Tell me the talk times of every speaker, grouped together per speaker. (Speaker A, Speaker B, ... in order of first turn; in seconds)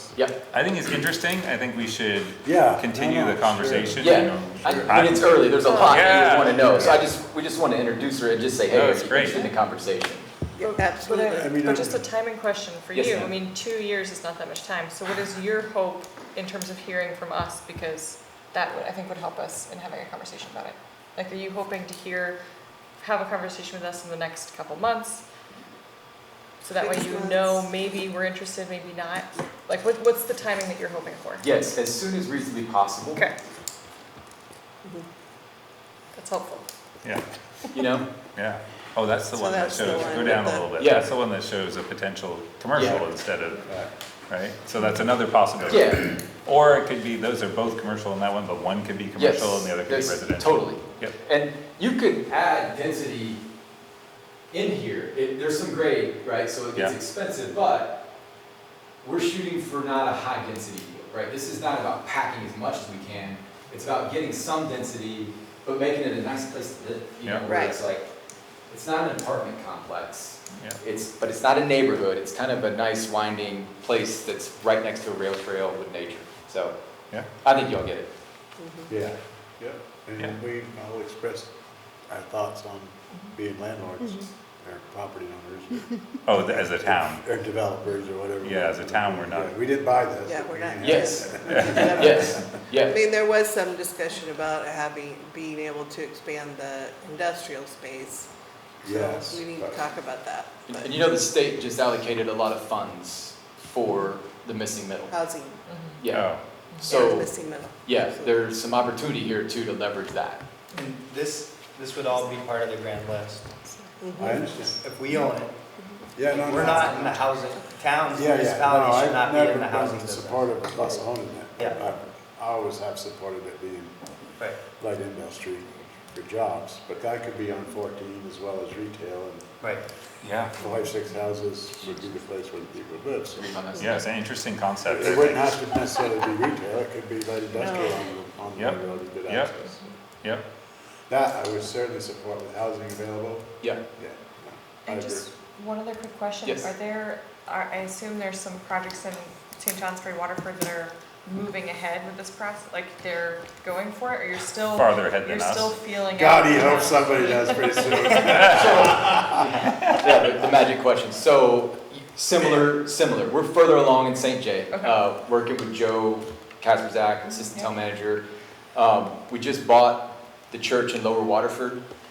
Speaker A: 0.1-0.4, 4.0-10.3, 12.9-13.3, 31.4-33.2, 37.7-38.0, 40.1-41.1, 42.7-43.0, 45.7-46.2, 49.1-53.4, 54.5-58.0, 59.0-68.1, 68.7-76.7, 77.4-78.1, 90.8-93.0, 100.7-105.2, 106.0-110.4, 133.3-134.0, 158.4-168.2, 168.7-171.8
Speaker B: 0.4-7.0, 8.7-9.5, 38.4-43.7, 44.3-51.1, 67.2-67.5, 70.5-70.8, 86.2-87.2, 88.4-89.5, 106.1-106.4, 130.2-130.5, 133.8-135.6, 138.6-139.5, 154.7-155.7
Speaker C: 2.4-5.2, 11.2-12.0, 42.8-43.1, 43.6-43.9, 78.9-81.5, 82.1-92.4, 98.8-99.8, 114.1-114.8, 116.1-117.3, 118.1-123.9, 124.6-129.5, 130.6-133.6, 134.8-139.9, 141.1-145.3, 156.1-160.3
Speaker D: 5.6-6.4, 10.7-22.4, 23.0-25.2, 26.6-31.5, 36.1-36.7, 105.7-106.0, 106.7-107.1, 144.8-158.4, 164.7-165.0, 167.3-167.7
Speaker E: 10.6-11.7, 26.8-27.8, 39.3-40.7, 67.4-67.8, 78.6-78.9, 90.2-98.3, 98.8-100.9, 105.1-105.6, 106.8-108.3, 114.0-114.4
Speaker F: 110.7-113.6, 114.6-115.6, 116.2-120.6, 121.6-121.8